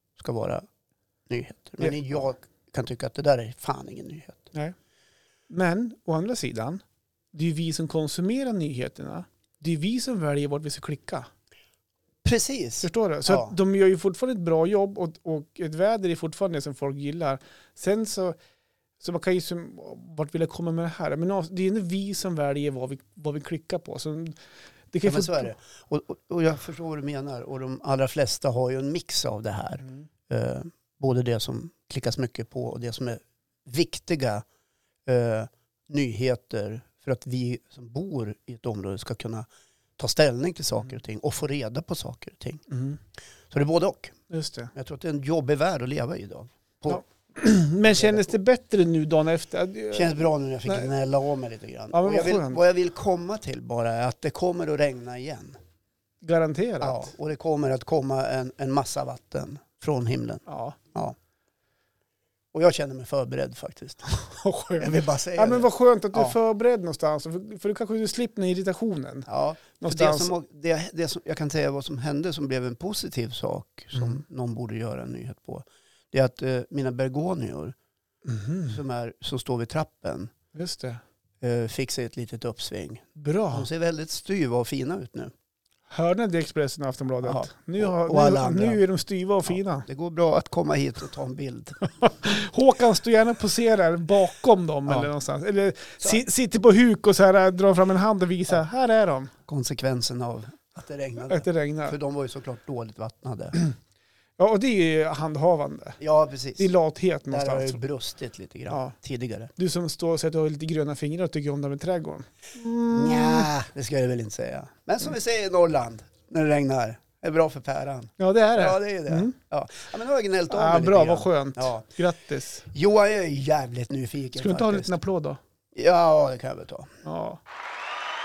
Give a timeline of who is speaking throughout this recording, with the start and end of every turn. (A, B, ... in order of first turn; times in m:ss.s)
0:00.2-0:00.6 A
0:01.3-0:04.5 A
0:01.8-0:02.2 B
0:05.5-0:06.8 B
0:07.3-0:11.3 B
0:12.2-0:13.5 A
0:12.8-0:18.4 B
0:19.0-0:24.4 B
0:24.9-0:25.5 B
0:25.0-0:34.4 A
0:35.0-0:39.5 A
0:40.0-0:42.6 A
0:42.7-0:43.0 B
0:43.5-0:44.2 A
0:44.3-0:44.7 B
0:44.7-0:47.0 A
0:46.9-0:50.9 B
0:47.9-0:48.3 A
0:49.9-0:55.6 A
0:51.9-0:52.6 B
0:56.2-0:57.1 B
0:56.8-1:01.2 A
1:00.5-1:00.8 B
1:02.5-1:04.1 A
1:04.1-1:10.3 B
1:04.8-1:06.3 A
1:09.3-1:17.7 A
1:13.9-1:14.2 B
1:18.2-1:18.8 B
1:18.6-1:20.3 A
1:20.5-1:21.0 B
1:21.4-1:25.3 A
1:23.2-1:23.7 B
1:25.9-1:29.8 B
1:27.2-1:28.8 A
1:29.5-1:31.9 A
1:32.0-1:39.3 B
1:39.5-1:43.6 A
1:41.3-1:41.9 B
1:44.4-1:46.0 B
1:46.0-1:46.7 A
1:46.6-1:47.8 B
1:47.3-1:49.5 A
1:48.7-1:48.9 B
1:49.6-1:53.5 B
1:52.9-2:01.8 A
1:58.2-1:59.3 B
2:00.5-2:02.7 B
2:02.7-2:05.0 A
2:04.4-2:05.4 B
2:05.7-2:07.0 A
2:07.0-2:07.4 B